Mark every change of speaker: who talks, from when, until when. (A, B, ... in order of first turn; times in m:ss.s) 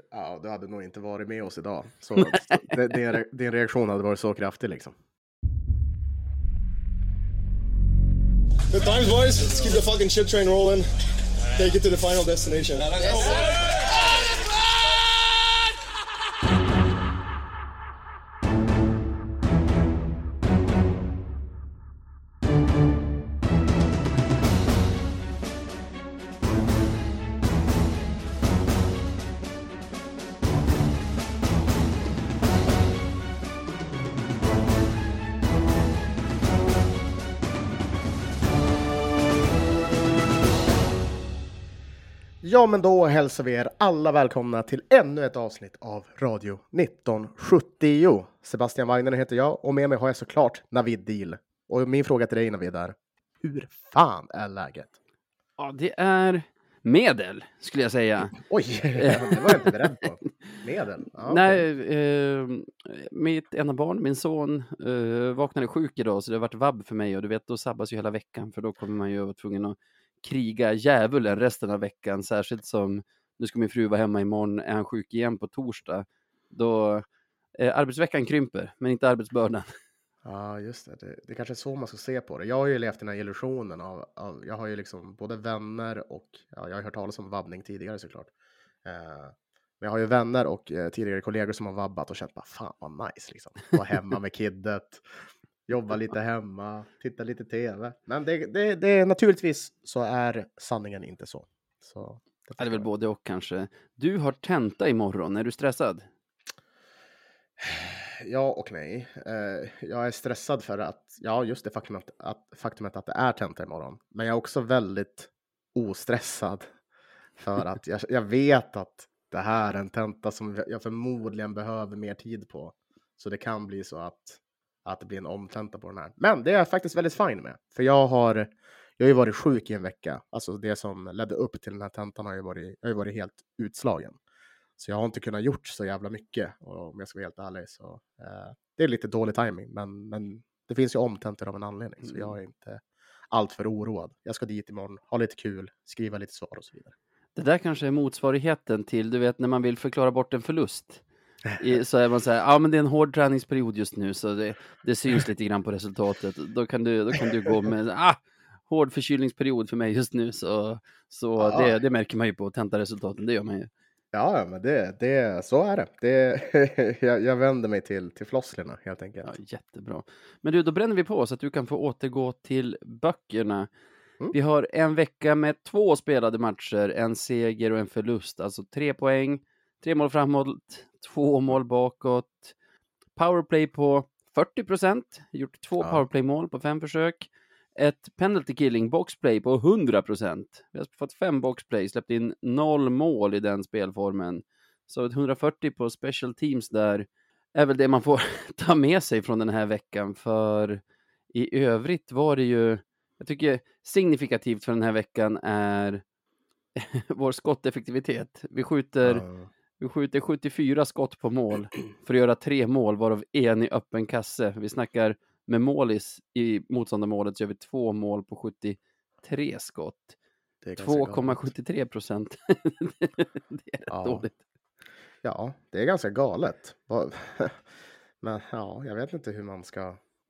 0:00.1-0:04.9 A
0:02.2-0:02.8 B
0:08.7-0:10.9 C
0:11.5-0:13.2 C
0:42.4-0:54.9 A
0:55.6-0:58.4 B
0:58.3-1:01.6 A
0:59.0-0:59.9 B
1:01.2-1:17.0 B
1:17.6-1:19.7 B
1:20.2-1:28.3 A
1:28.8-1:42.9 A
1:42.6-1:46.0 B
1:47.6-1:56.7 A
1:57.4-2:14.2 A
2:14.8-2:26.9 A
2:22.0-2:22.3 B
2:27.4-2:31.0 B
2:31.6-2:43.7 B
2:41.4-2:41.8 A
2:44.1-2:49.3 A
2:49.2-2:53.7 B
2:54.3-3:02.5 B
3:03.2-3:26.0 B
3:26.8-3:29.2 B
3:29.0-3:29.5 A
3:29.8-3:40.1 B
3:40.6-3:41.5 A
3:40.8-3:44.4 B
3:43.9-3:44.2 A
3:45.2-3:47.7 A
3:48.2-3:50.0 A